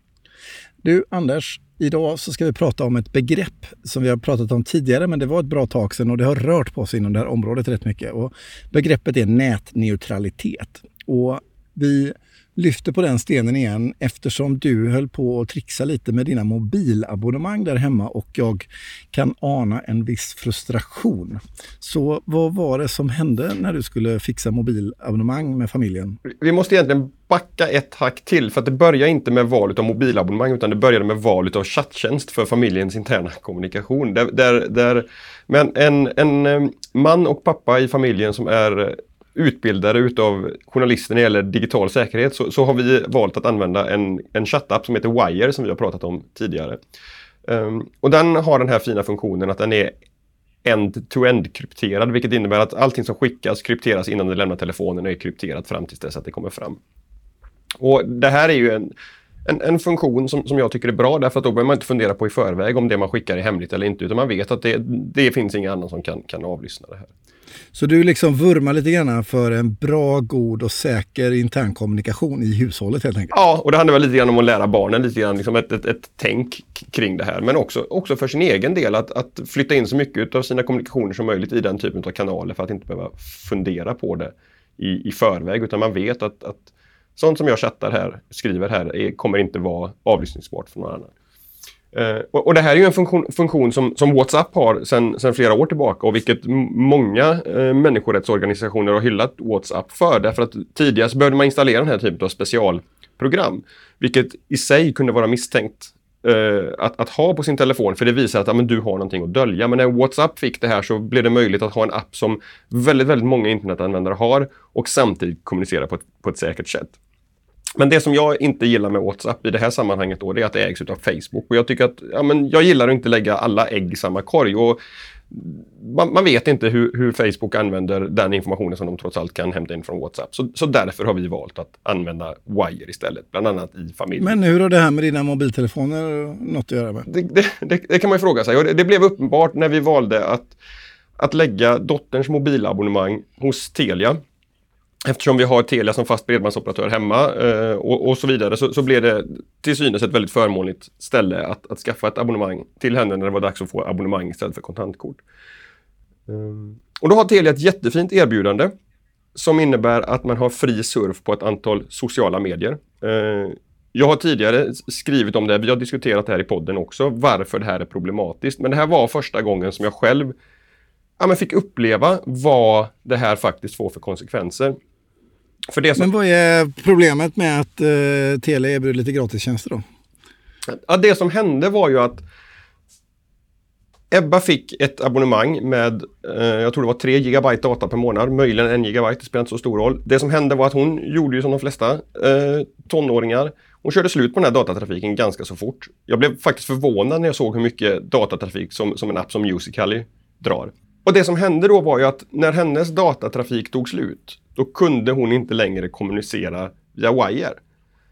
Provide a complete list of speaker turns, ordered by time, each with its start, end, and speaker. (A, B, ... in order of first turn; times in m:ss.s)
0:00.8-0:26.2 A
0:26.2-0:46.8 B
0:47.4-0:50.0 B
0:50.6-0:56.8 B
0:57.8-0:58.9 B
0:59.4-1:07.1 B
1:07.7-1:13.3 A
1:13.3-1:31.1 B
1:31.9-1:57.0 B
1:57.8-2:04.8 B
2:05.3-2:14.4 B
2:14.2-2:17.1 A
2:17.1-2:20.6 B
2:21.2-2:24.2 B
2:25.0-2:35.2 B
2:36.3-2:38.7 B
2:39.3-2:50.3 B
2:51.2-2:54.8 B
2:55.7-2:56.0 B
2:56.0-2:59.8 A
3:00.7-3:02.2 B
3:04.1-3:27.6 B